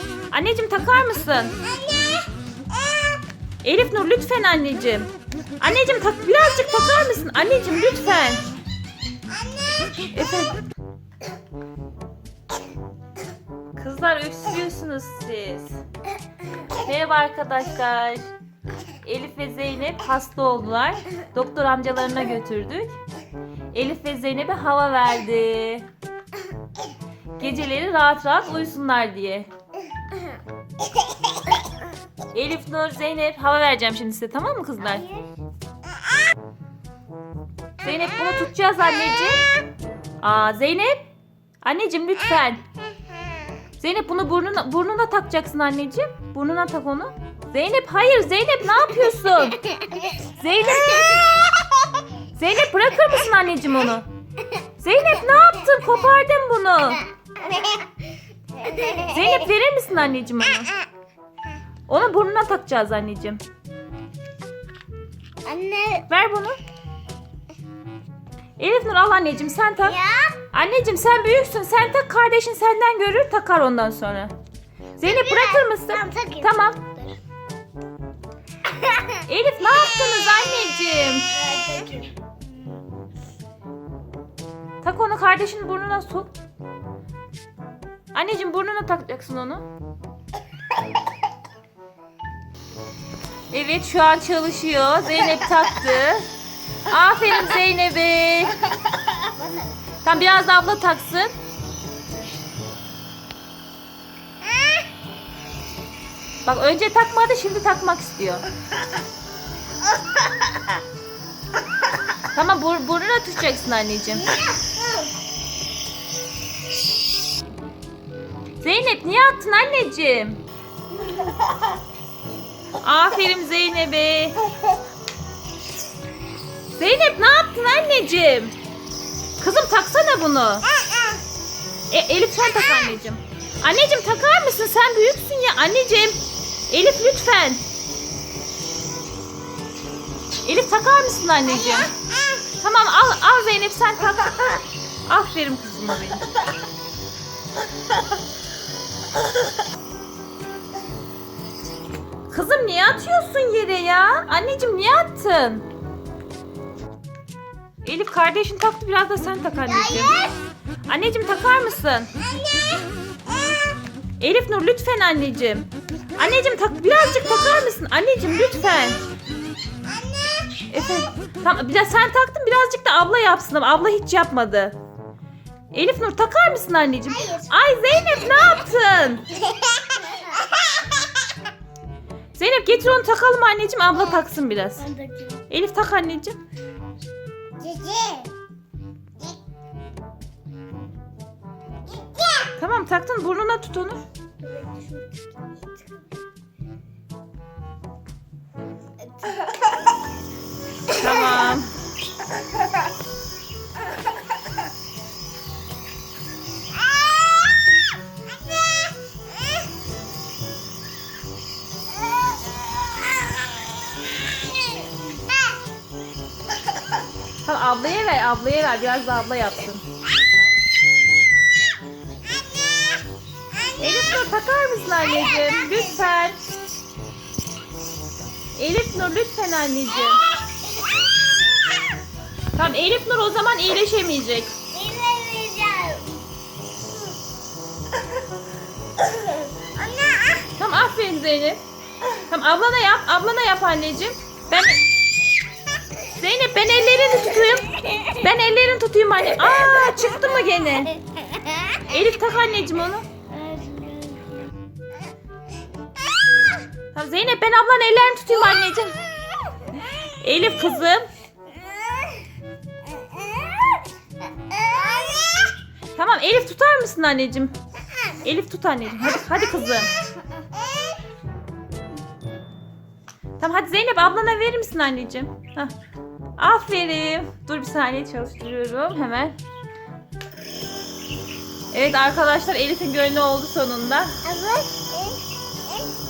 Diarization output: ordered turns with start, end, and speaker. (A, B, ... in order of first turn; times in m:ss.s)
0:00.3-0:01.6 A
0:01.9-0:02.1 B
0:03.6-0:08.4 A
0:10.1-0:10.6 A
0:13.8-0:15.8 A
0:16.7-0:18.2 A
0:19.0-0:23.0 A
0:23.7-0:25.9 A
0:27.4-0:29.5 A
0:32.3-0:35.1 A
0:34.9-0:35.3 B
0:37.8-0:39.4 A
0:40.2-0:41.0 A
0:41.6-0:42.6 A
0:43.8-0:51.5 A
0:52.3-0:54.1 A
0:54.8-0:57.0 A
0:57.4-0:57.9 B
0:58.6-0:59.3 B
0:59.0-1:00.7 A
1:01.9-1:03.4 A
1:05.4-1:06.0 B
1:06.1-1:06.6 A
1:08.6-1:10.0 A
1:09.8-1:10.4 B
1:10.5-1:14.3 A
1:15.0-1:16.8 A
1:15.0-1:17.2 B
1:18.8-1:19.1 B
1:19.2-1:21.3 A
1:21.3-1:22.8 B
1:24.8-1:26.3 A
1:28.1-1:29.7 A
1:33.5-1:36.3 A
1:36.9-1:38.6 A
1:40.0-1:41.3 A
1:46.4-1:48.4 A
1:52.3-1:54.3 A
1:58.6-2:00.4 A
2:02.8-2:04.4 A
2:06.8-2:08.5 A
2:09.4-2:10.6 A
2:11.9-2:17.6 A
2:20.4-2:21.9 A
2:22.6-2:26.2 A
2:32.3-2:35.7 A
2:37.8-2:40.3 A
2:39.9-2:40.3 B
2:40.9-2:42.1 A
2:44.2-2:49.0 A
2:50.7-2:54.7 A
2:55.7-2:59.3 A
2:59.5-3:00.4 B
3:02.3-3:04.8 A
3:04.8-3:05.4 B
3:05.5-3:06.4 A
3:07.6-3:08.3 B
3:12.6-3:14.0 A
3:14.4-3:15.8 B
3:19.2-3:19.6 B
3:20.9-3:21.7 A
3:37.4-3:39.8 A
3:43.8-3:46.4 A
3:48.5-3:50.2 A
3:52.5-3:54.5 A
3:54.7-3:56.2 B
3:59.6-4:00.3 B
4:00.6-4:01.6 A
4:02.3-4:04.8 A
4:06.0-4:11.0 A
4:11.8-4:13.0 A
4:13.3-4:14.5 B
4:16.9-4:19.0 A
4:20.2-4:21.1 A
4:23.1-4:23.8 B
4:24.5-4:25.5 B
4:26.0-4:27.5 A
4:28.2-4:29.9 A
4:33.4-4:35.7 A
4:36.4-4:39.4 A
4:41.7-4:44.2 A
4:44.2-4:45.2 B